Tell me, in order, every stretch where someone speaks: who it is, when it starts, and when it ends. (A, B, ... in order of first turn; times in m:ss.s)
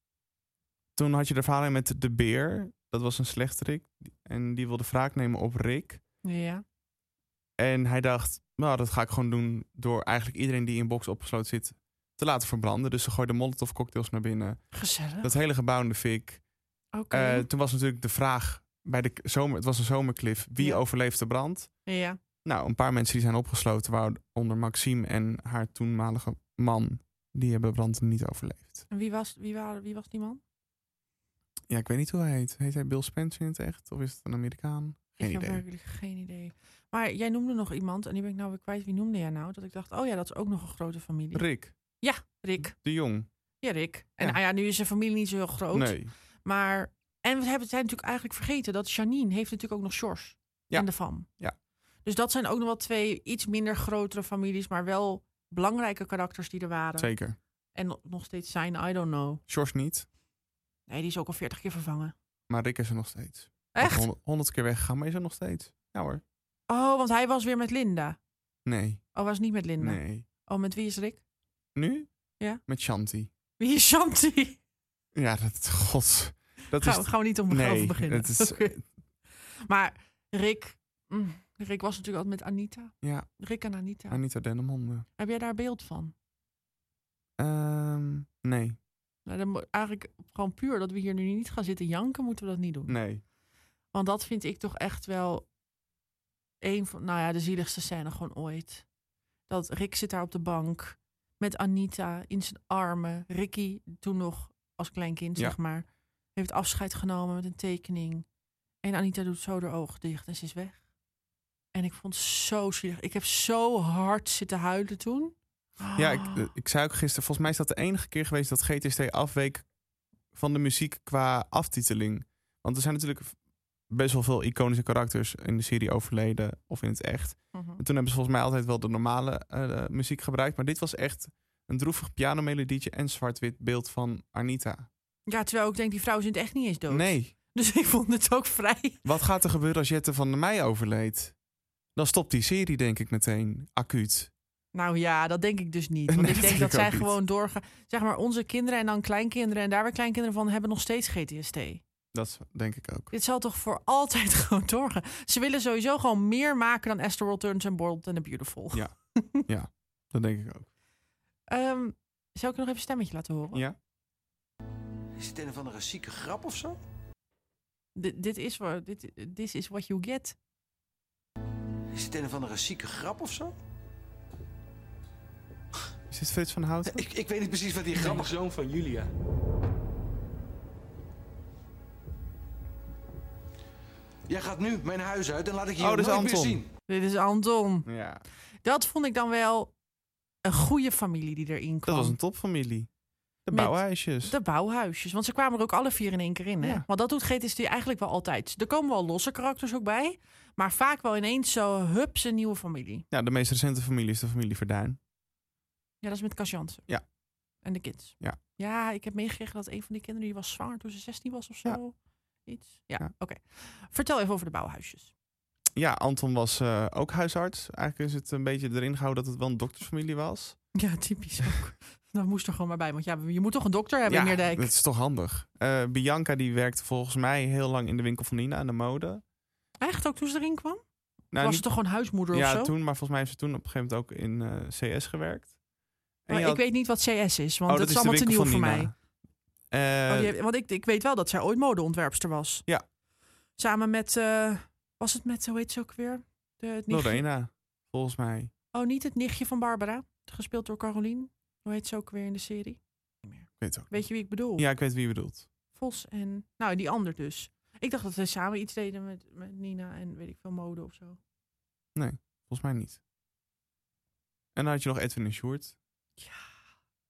0:01.0-0:06.0 A
0:06.2-0:06.6 B
0:07.6-0:14.6 A
0:14.7-0:15.3 B
0:15.2-0:16.4 A
0:16.9-0:17.5 B
0:17.1-0:21.7 A
0:21.8-0:22.2 B
0:22.4-0:28.8 A
0:28.9-0:30.4 B
0:31.7-0:35.6 A
0:35.2-0:41.4 B
0:41.3-0:41.7 A
0:42.0-0:42.8 B
0:42.6-0:43.3 A
0:43.6-0:51.3 B
0:45.7-0:46.1 A
0:52.0-0:57.1 B
0:57.0-0:57.4 A
0:57.7-0:59.4 B
0:59.5-1:00.0 A
1:00.9-1:02.1 B
1:02.5-1:06.2 A
1:03.7-1:04.1 B
1:06.7-1:08.2 B
1:08.6-1:09.0 A
1:09.1-1:11.2 B
1:09.8-1:10.2 A
1:11.8-1:12.1 A
1:12.7-1:13.3 A
1:13.6-1:14.6 B
1:15.1-1:18.8 A
1:16.8-1:18.7 B
1:19.6-1:24.2 B
1:23.0-1:23.3 A
1:24.1-1:25.0 A
1:25.2-1:26.1 B
1:27.4-1:28.8 A
1:29.2-1:33.0 B
1:32.9-1:33.2 A
1:33.9-1:35.4 B
1:36.6-1:38.8 B
1:39.5-1:45.8 B
1:46.4-1:48.2 B
1:48.8-1:50.8 B
1:51.7-1:56.5 B
1:56.0-1:59.6 A
2:00.3-2:03.4 A
2:03.9-2:14.9 A
2:07.5-2:07.8 B
2:15.3-2:19.0 B
2:16.9-2:17.3 A
2:19.0-2:21.3 A
2:22.0-2:24.3 A
2:24.7-2:31.8 B
2:26.1-2:27.1 A
2:32.1-2:33.1 A
2:33.1-2:39.4 B
2:39.4-2:40.7 A
2:41.5-2:43.6 B
2:45.6-2:46.6 C
2:47.9-2:50.4 B
2:52.4-2:53.4 C
2:56.1-2:57.1 A
2:57.2-2:59.0 C
2:58.0-2:58.2 B
3:04.3-3:06.6 C
3:05.8-3:06.6 A
3:06.9-3:07.9 B
3:07.8-3:08.2 A
3:08.6-3:09.7 B
3:10.4-3:12.2 B
3:11.9-3:12.9 A
3:13.4-3:14.3 A
3:13.5-3:23.0 B
3:23.1-3:25.0 A
3:26.0-3:26.8 B
3:27.6-3:31.9 B
3:32.4-3:35.1 B
3:35.8-3:40.6 A
3:40.7-3:44.7 B
3:44.1-3:49.2 A
3:49.8-3:50.8 B
3:51.3-3:51.6 A
3:51.4-3:52.7 B
3:52.3-3:55.5 A
3:56.3-3:56.6 A
3:56.3-3:58.9 B
3:57.7-3:58.9 A
3:59.7-4:00.3 A
4:00.1-4:02.6 B
4:03.6-4:07.2 B
4:06.9-4:08.5 A
4:08.7-4:14.6 B
4:13.6-4:14.0 A
4:14.6-4:15.5 A
4:15.7-4:21.2 B
4:22.0-4:23.0 A
4:24.5-4:25.7 A
4:26.2-4:26.4 B